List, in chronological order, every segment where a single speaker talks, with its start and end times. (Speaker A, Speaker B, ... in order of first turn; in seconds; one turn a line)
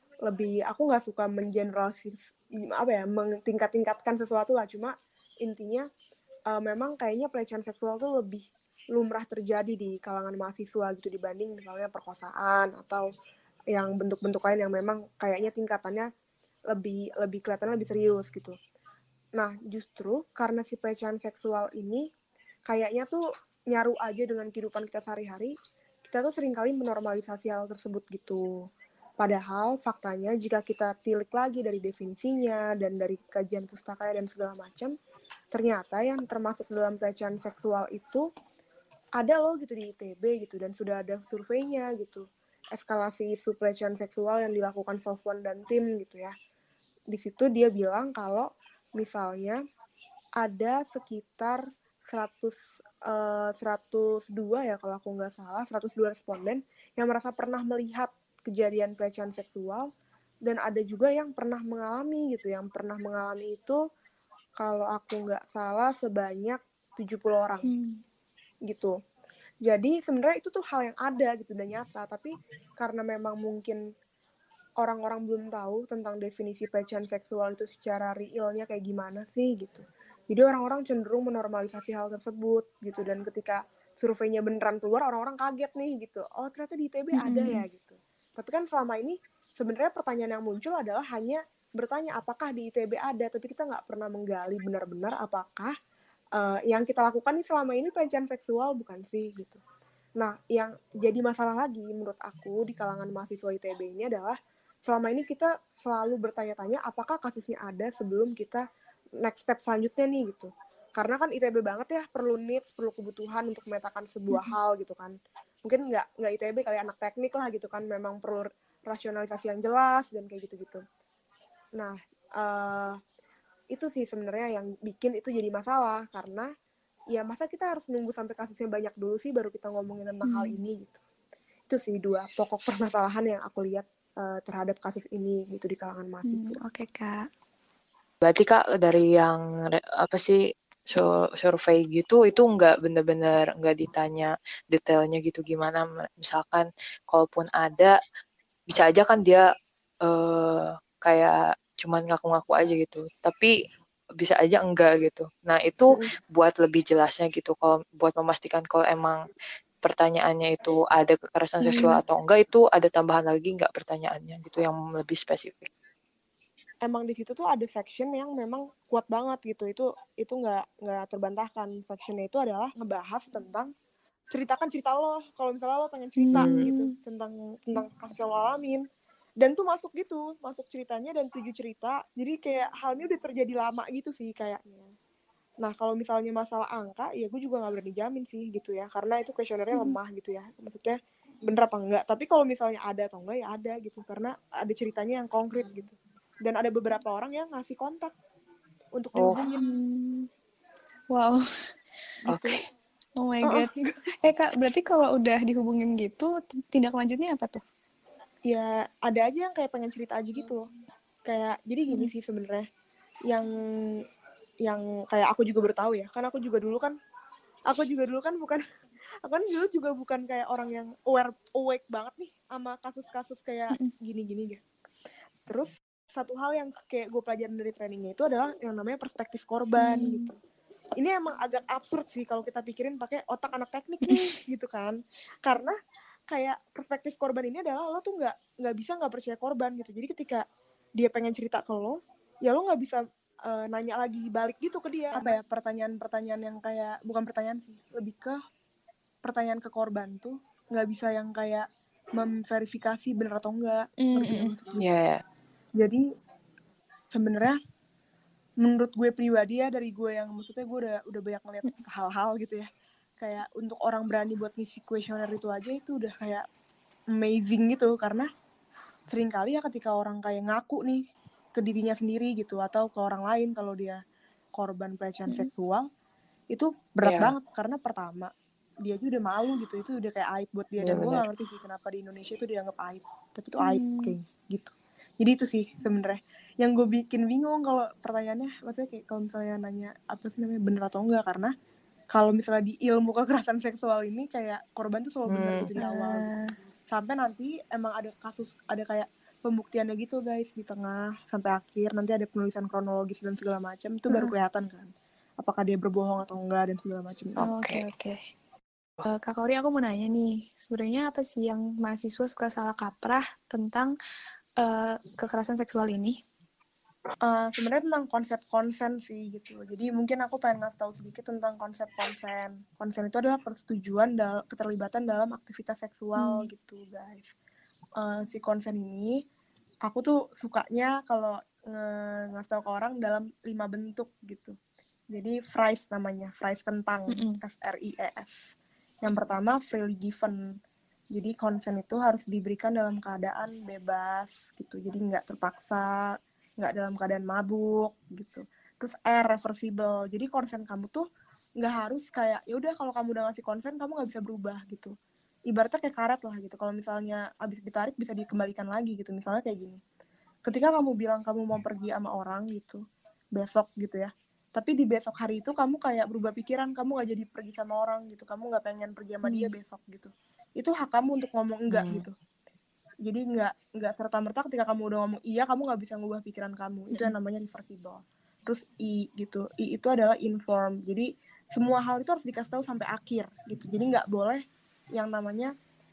Speaker A: 0.2-5.9
Speaker A: 6.5-13.1
Speaker A: 13.7-16.1
Speaker A: 16.7-18.6
Speaker A: 19.4-22.1
Speaker A: 22.7-25.5
Speaker A: 26.0-28.5
Speaker A: 29.2-34.9
Speaker A: 35.5-38.3
Speaker A: 39.2-46.3
Speaker A: 47.1-49.6
Speaker A: 50.4-59.9
Speaker A: 60.4-63.8
Speaker A: 64.6-67.7
Speaker B: 67.6-68.0
Speaker A: 68.7-68.9
Speaker A: 69.7-73.8
Speaker A: 74.8-95.7
Speaker B: 87.1-87.6
Speaker A: 96.4-99.6
Speaker A: 100.2-104.3
Speaker A: 104.9-108.6
Speaker A: 109.2-120.8
Speaker B: 114.3-114.6
Speaker A: 121.8-123.0
Speaker A: 123.7-126.5
Speaker A: 127.1-131.0
Speaker B: 130.2-130.6
Speaker A: 131.7-136.6
Speaker B: 136.3-137.2
Speaker C: 138.2-139.4
Speaker C: 140.0-140.4
Speaker C: 140.9-148.0
Speaker C: 148.7-149.5
Speaker C: 150.1-153.5
Speaker C: 154.2-159.2
Speaker C: 159.8-165.7
Speaker B: 161.6-162.0
Speaker A: 166.8-173.7
Speaker A: 174.3-178.8
Speaker B: 176.2-176.9
Speaker C: 176.3-176.7
Speaker A: 179.4-184.9
Speaker A: 185.6-198.1
Speaker A: 199.0-199.6
Speaker C: 199.2-199.4
Speaker B: 199.6-200.3
Speaker B: 201.1-201.4
Speaker C: 202.3-202.6
Speaker B: 203.2-203.7
Speaker A: 203.4-203.7
Speaker B: 204.2-207.6
Speaker A: 208.5-210.7
Speaker A: 211.3-212.7
Speaker A: 214.7-216.9
Speaker A: 217.7-218.6
Speaker A: 219.2-224.6
Speaker A: 225.5-230.3
Speaker B: 229.8-230.3
Speaker A: 231.0-235.8
Speaker B: 234.1-234.3
Speaker A: 236.3-240.4
Speaker A: 241.0-248.3
Speaker A: 249.2-254.8
Speaker B: 254.0-254.5
Speaker C: 254.8-255.2
Speaker A: 255.8-256.1
Speaker A: 257.1-257.6
Speaker A: 258.6-262.7
Speaker A: 263.2-266.4
Speaker A: 267.1-268.3
Speaker A: 269.1-271.0
Speaker A: 271.6-274.0
Speaker A: 274.6-275.8
Speaker A: 276.5-278.3
Speaker C: 277.0-277.3
Speaker A: 278.8-291.5
Speaker C: 280.8-281.2
Speaker B: 283.6-284.1
Speaker A: 292.1-296.3
Speaker C: 295.3-295.7
Speaker B: 295.8-296.5
Speaker A: 296.9-304.9
Speaker B: 304.1-304.3
Speaker A: 305.4-307.5
Speaker C: 307.4-307.8
Speaker B: 307.4-308.2
Speaker B: 309.0-313.9
Speaker B: 314.6-316.2
Speaker A: 317.2-327.3
Speaker B: 326.2-326.5
Speaker A: 328.0-329.2
Speaker A: 329.9-334.6
Speaker A: 335.1-338.5
Speaker B: 337.1-337.4
Speaker A: 339.0-340.4
Speaker A: 341.1-346.0
Speaker A: 346.6-351.1
Speaker A: 351.6-354.9
Speaker A: 355.5-359.8
Speaker A: 360.5-362.8
Speaker A: 363.4-372.1
Speaker B: 369.2-369.5
Speaker C: 371.7-372.1
Speaker A: 373.0-384.4
Speaker A: 385.0-385.5